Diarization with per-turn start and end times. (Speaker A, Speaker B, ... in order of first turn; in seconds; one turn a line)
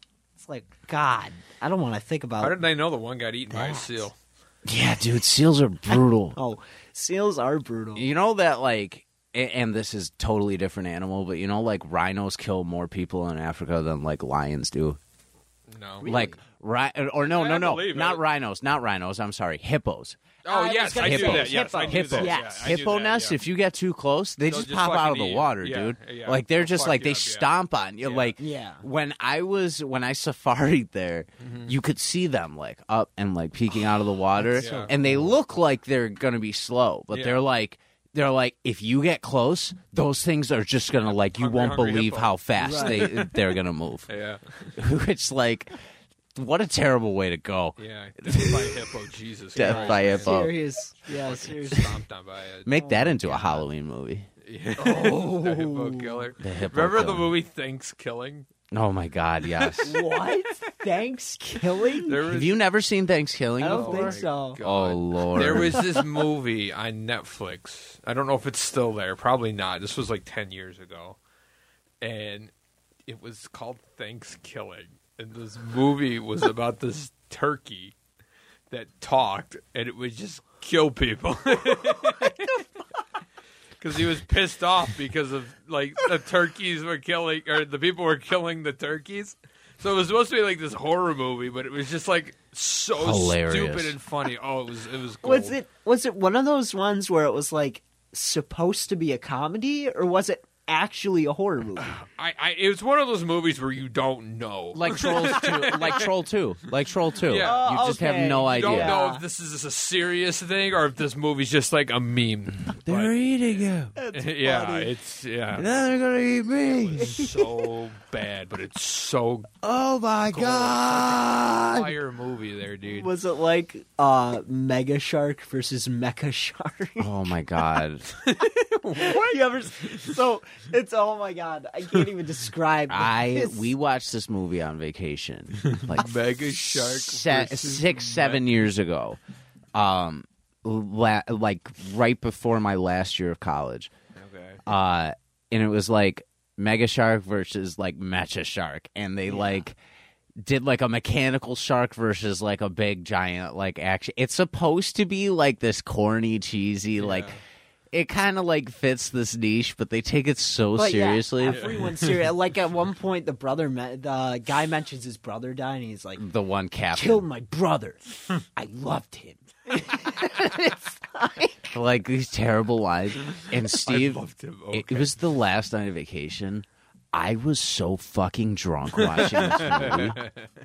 Speaker A: 0.4-2.6
Speaker B: 2.4-4.2
Speaker A: 3.5-4.1
Speaker C: 4.7-6.4
Speaker A: 5.9-8.1
Speaker C: 8.0-15.0
Speaker B: 15.7-16.1
Speaker A: 16.0-16.4
Speaker C: 16.1-20.2
Speaker B: 17.2-18.2
Speaker B: 20.4-23.4
Speaker A: 20.5-22.8
Speaker C: 21.0-44.1
Speaker B: 24.4-27.5
Speaker B: 28.0-28.3
Speaker A: 28.4-28.9
Speaker B: 31.4-31.7
Speaker A: 34.4-35.3
Speaker B: 34.6-35.0
Speaker B: 37.1-37.4
Speaker B: 41.0-43.4
Speaker A: 42.6-43.1
Speaker B: 44.1-44.7
Speaker C: 44.8-45.8
Speaker C: 46.4-48.9
Speaker B: 47.8-53.6
Speaker C: 49.5-50.6
Speaker A: 49.6-52.0
Speaker C: 52.7-54.3
Speaker A: 52.8-53.2
Speaker B: 54.4-58.5
Speaker A: 54.8-56.3
Speaker C: 56.4-57.3
Speaker C: 58.7-60.0
Speaker B: 59.5-60.5
Speaker A: 59.8-62.2
Speaker B: 61.9-62.6
Speaker C: 62.2-65.8
Speaker A: 63.6-64.6
Speaker B: 63.6-71.2
Speaker A: 65.5-66.0
Speaker B: 72.0-72.5
Speaker B: 73.1-77.9
Speaker B: 78.7-82.6
Speaker A: 81.7-82.6
Speaker B: 83.8-95.6
Speaker C: 93.0-94.0
Speaker A: 95.2-102.0
Speaker B: 101.8-106.1
Speaker C: 104.7-109.0
Speaker B: 107.2-113.1
Speaker A: 107.4-109.2
Speaker C: 112.8-114.0
Speaker A: 114.0-114.9
Speaker B: 114.1-115.8
Speaker C: 115.5-117.3
Speaker B: 116.6-119.5
Speaker C: 119.6-121.9
Speaker B: 120.3-123.1
Speaker A: 122.9-127.1
Speaker C: 127.0-128.1
Speaker B: 128.2-130.2
Speaker A: 128.9-133.7
Speaker C: 132.9-139.2
Speaker B: 135.7-138.4
Speaker C: 139.8-143.9
Speaker B: 144.2-144.6
Speaker C: 144.7-149.8
Speaker A: 149.3-149.6
Speaker C: 150.4-157.3
Speaker B: 157.0-157.4
Speaker C: 157.9-161.7
Speaker A: 160.8-166.2
Speaker B: 161.4-162.0
Speaker C: 166.2-167.2
Speaker A: 166.9-171.8
Speaker C: 171.7-180.2
Speaker B: 173.7-175.2
Speaker B: 179.1-180.4
Speaker A: 179.3-180.0